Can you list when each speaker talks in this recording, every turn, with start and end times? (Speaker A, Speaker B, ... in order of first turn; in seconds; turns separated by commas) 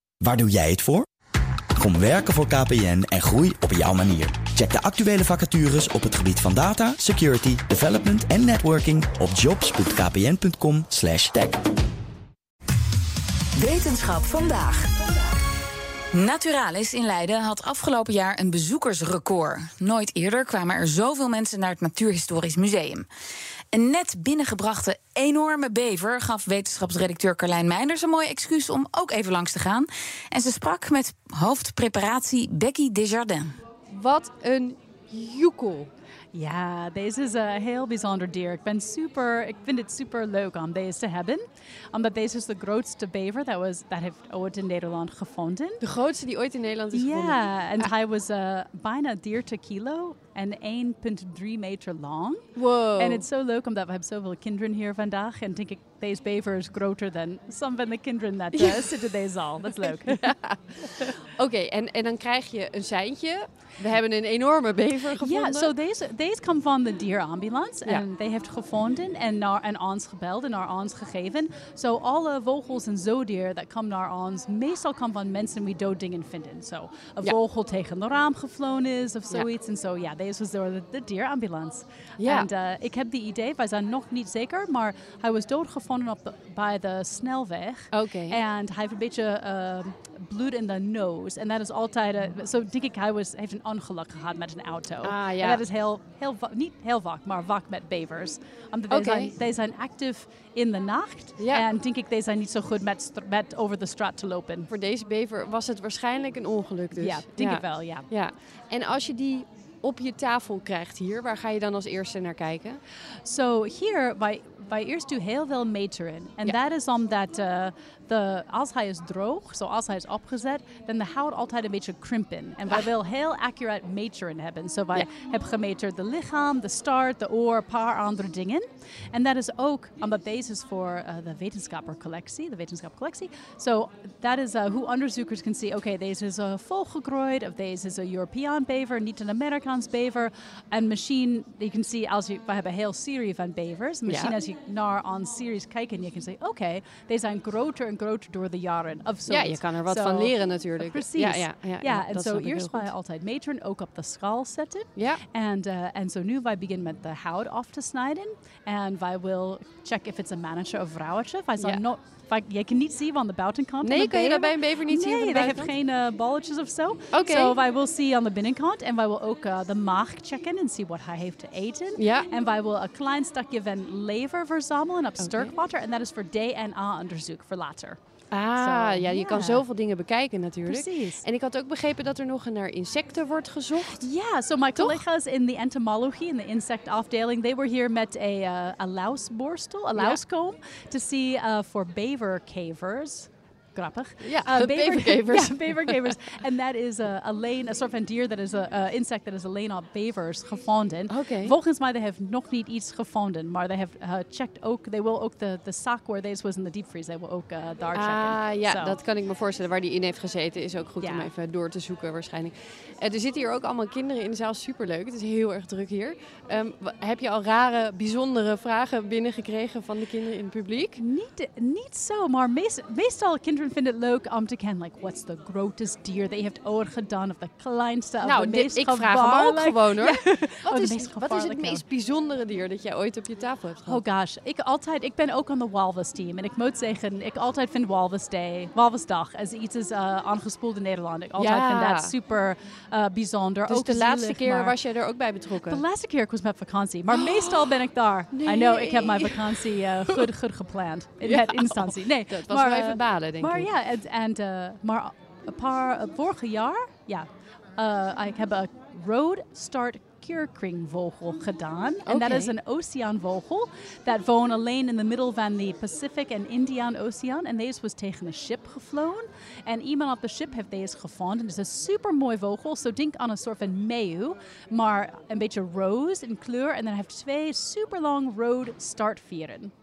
Speaker A: 0.2-1.1, Speaker A: 1.8-11.6, Speaker B: 13.6-14.9, Speaker B: 16.1-23.1, Speaker B: 23.7-33.5, Speaker C: 33.9-35.9, Speaker D: 36.3-41.4, Speaker D: 41.9-45.8, Speaker C: 45.8-47.9, Speaker D: 46.9-60.3, Speaker C: 52.6-53.2, Speaker C: 58.6-59.1, Speaker C: 59.8-65.7, Speaker D: 65.2-104.7, Speaker C: 82.2-82.5, Speaker C: 87.9-88.4, Speaker C: 95.0-95.6, Speaker C: 98.9-99.3, Speaker C: 101.4-101.7, Speaker C: 104.7-112.8, Speaker D: 107.0-108.1, Speaker D: 113.2-178.0, Speaker C: 144.1-144.3, Speaker C: 149.3-152.9, Speaker C: 155.0-155.2, Speaker C: 163.8-165.7, Speaker C: 167.1-167.6, Speaker C: 172.0-172.3, Speaker C: 175.2-175.5, Speaker C: 178.3-184.0, Speaker D: 178.6-179.6, Speaker D: 180.7-181.2, Speaker D: 184.0-209.0, Speaker C: 194.2-196.2, Speaker C: 201.1-201.6, Speaker C: 207.9-221.0, Speaker D: 211.0-211.3, Speaker D: 221.0-231.8, Speaker C: 228.2-234.0, Speaker D: 233.8-244.8, Speaker C: 241.4-242.1, Speaker C: 243.7-245.8, Speaker D: 245.7-279.7, Speaker C: 247.1-250.2, Speaker C: 251.2-253.7, Speaker C: 262.1-262.5